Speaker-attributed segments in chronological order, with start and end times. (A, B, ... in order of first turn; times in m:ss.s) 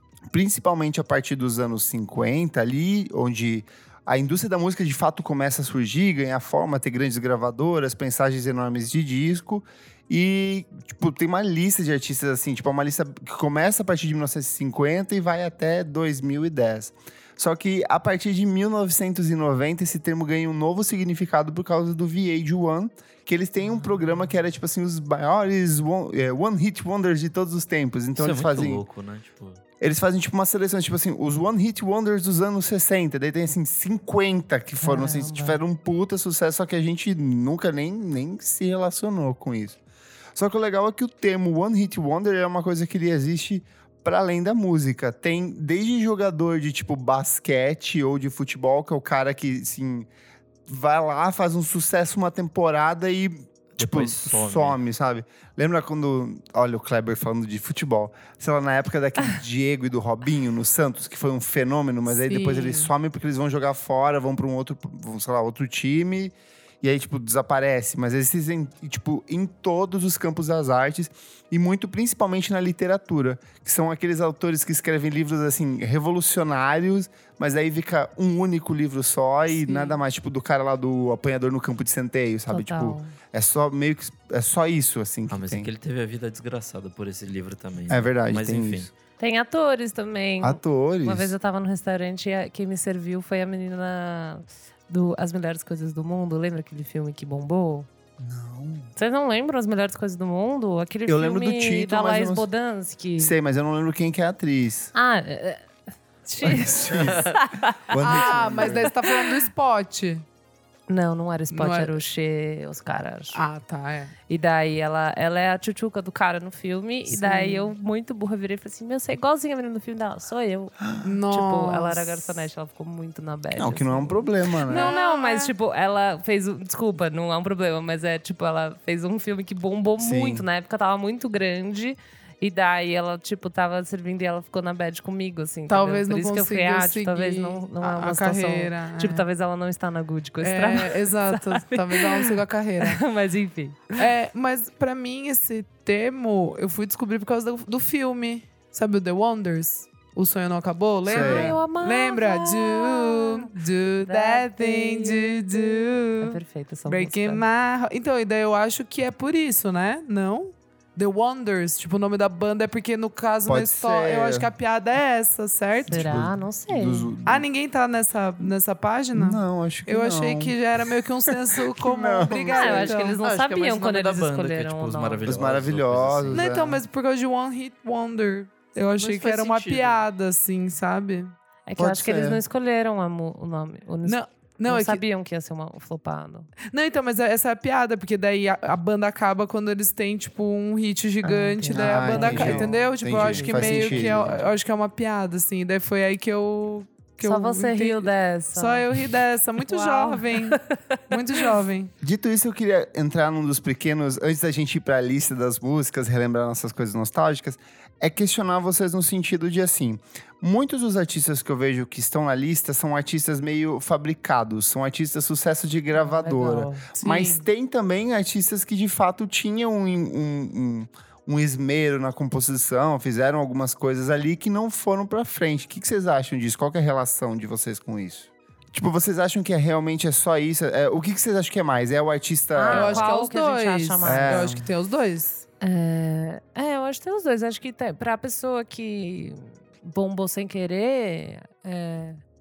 0:00.3-0:28.8 A
0:28.2-0:29.6 B
0:29.8-0:39.8 A
0:34.8-0:35.6 C
0:40.4-0:50.1 A
0:50.7-1:25.7 A
0:53.8-0:54.8 B
1:02.1-1:02.9 D
1:19.6-1:20.0 D
1:22.5-1:23.2 C
1:25.3-1:28.9 B
1:27.9-1:28.9 A
1:29.2-1:37.9 C
1:30.4-1:31.3 A
1:38.2-1:38.9 A
1:39.0-1:43.4 C
1:41.1-1:42.5 A
1:43.2-1:44.9 A
1:44.9-1:45.6 C
1:46.2-1:49.3 C
1:46.4-1:47.3 A
1:46.9-1:47.3 B
1:47.9-1:48.9 A
1:48.0-1:50.2 D
1:50.9-1:53.4 C
1:51.5-1:52.0 D
1:53.3-1:54.1 D
1:54.3-2:24.1 C
1:57.1-1:57.7 D
2:01.0-2:02.4 D
2:03.6-2:04.9 A
2:04.6-2:05.5 D
2:10.0-2:10.4 A
2:15.7-2:19.3 D
2:20.4-2:23.0 D
2:23.9-2:46.0 D
2:31.1-2:31.6 A
2:31.1-2:37.4 C
2:43.4-2:44.5 A
2:45.9-2:47.1 C
2:45.9-2:47.5 A
2:47.3-2:53.2 D
2:49.1-2:50.6 A
2:51.3-2:53.0 A
2:52.5-2:55.3 C
2:53.2-2:56.5 B
2:55.3-2:56.8 A
2:56.3-3:01.4 D
2:59.0-3:00.0 B
3:01.7-3:06.5 C
3:01.8-3:02.4 A
3:04.0-3:05.0 D
3:06.7-3:21.9 D
3:11.2-3:14.1 C
3:11.7-3:14.4 A
3:17.2-3:18.9 C
3:19.6-3:21.5 C
3:22.0-3:53.1 A
3:35.9-3:37.0 C
3:37.0-3:37.4 D
3:52.5-3:54.5 C
3:52.7-3:55.5 D
3:54.0-3:54.7 A
3:55.6-4:02.2 C